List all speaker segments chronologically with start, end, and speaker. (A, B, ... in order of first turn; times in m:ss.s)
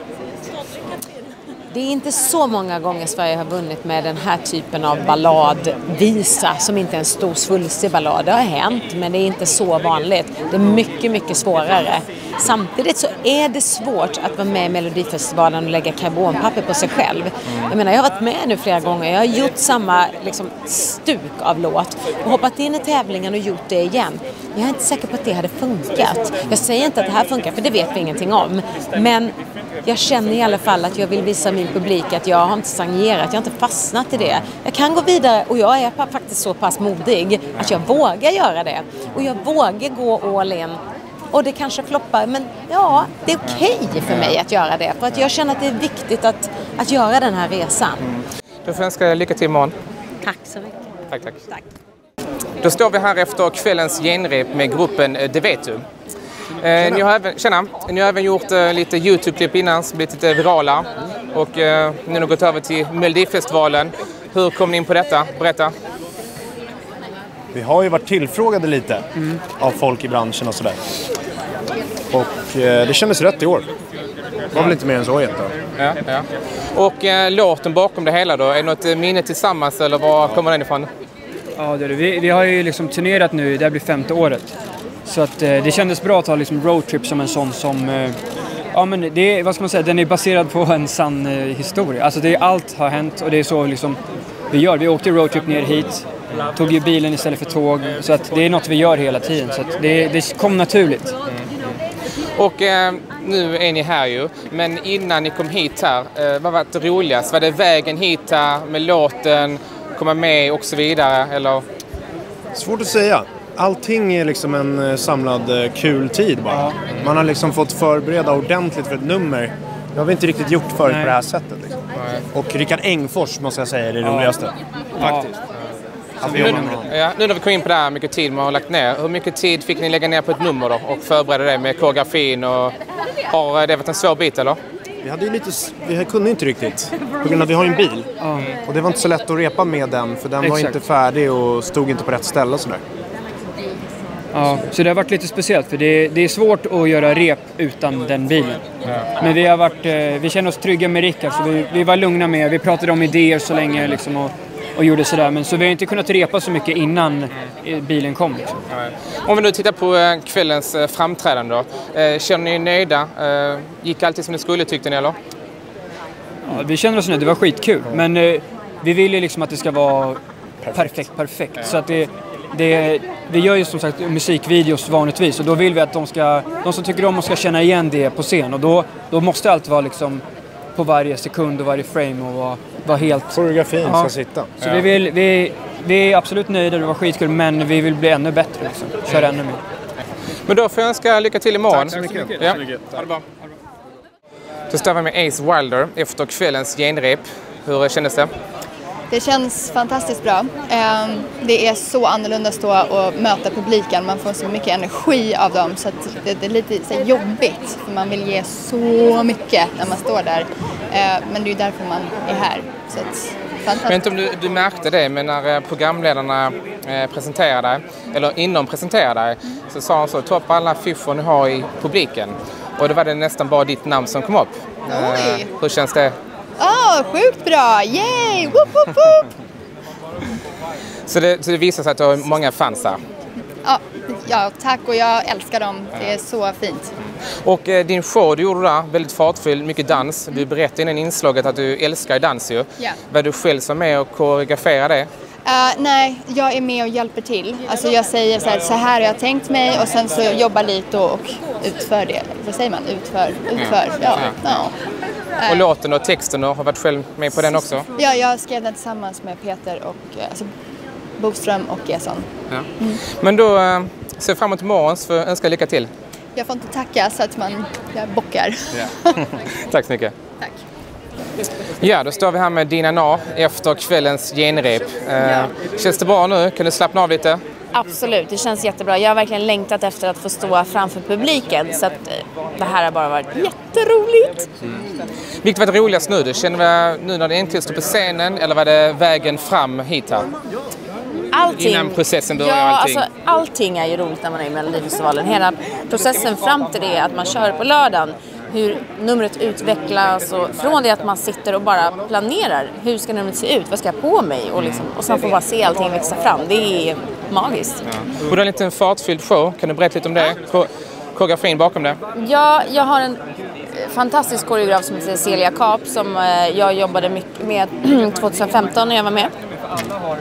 0:01.7-0:40.8 A
0:41.3-0:48.0 A
0:43.4-0:44.4 B
0:48.0-0:49.7 B
0:50.2-0:50.8 A
0:51.1-0:51.4 B
0:52.6-0:55.8 B
0:56.6-1:05.7 B
1:07.5-1:10.8 C
1:12.1-1:13.6 C
1:14.5-1:15.5 C
1:15.8-1:20.9 B
1:21.6-1:24.5 D
1:25.0-1:28.2 D
1:28.7-1:34.0 D
1:34.5-1:41.1 D
1:42.4-1:51.6 B
1:52.5-2:01.8 C
1:56.5-1:56.8 D
2:00.8-2:01.1 D
2:02.0-2:02.2 B
2:02.3-2:05.3 C
2:04.0-2:04.3 D
2:05.0-2:05.3 D
2:06.2-2:06.9 C
2:06.2-2:06.9 D
2:06.3-2:12.7 B
2:13.3-2:14.6 B
2:15.0-2:18.1 C
2:18.2-2:18.5 D
2:18.6-2:22.8 C
2:20.4-2:20.8 D
2:24.3-2:28.6 D
2:29.2-2:38.6 D
2:38.7-2:45.2 B
2:46.4-2:50.2 D
2:50.6-2:51.0 C
2:50.7-3:00.2 D
3:00.7-3:09.6 D
3:03.3-3:04.5 C
3:10.5-3:13.2 B
3:11.7-3:12.8 C
3:14.7-3:18.3 B
3:19.1-3:34.0 E
3:33.8-3:46.1 B
3:44.9-3:45.5 E
3:46.6-3:49.3 E
3:51.1-3:53.0 B
3:53.6-3:56.9 E
3:57.4-4:05.1 B
4:05.4-4:14.7 E
4:13.5-4:14.6 B
4:15.4-4:15.7 E
4:15.5-4:17.9 B
4:18.0-4:20.4 E
4:21.2-4:22.3 E
4:22.5-4:25.9 B
4:26.4-4:29.2 E
4:29.5-4:30.1 B
4:31.8-4:37.4 B
4:37.7-4:44.4 F
4:45.4-4:50.3 B
4:51.3-5:07.8 F
4:51.6-4:53.0 B
5:04.6-5:04.9 B
5:07.9-5:12.0 B
5:12.2-5:19.3 F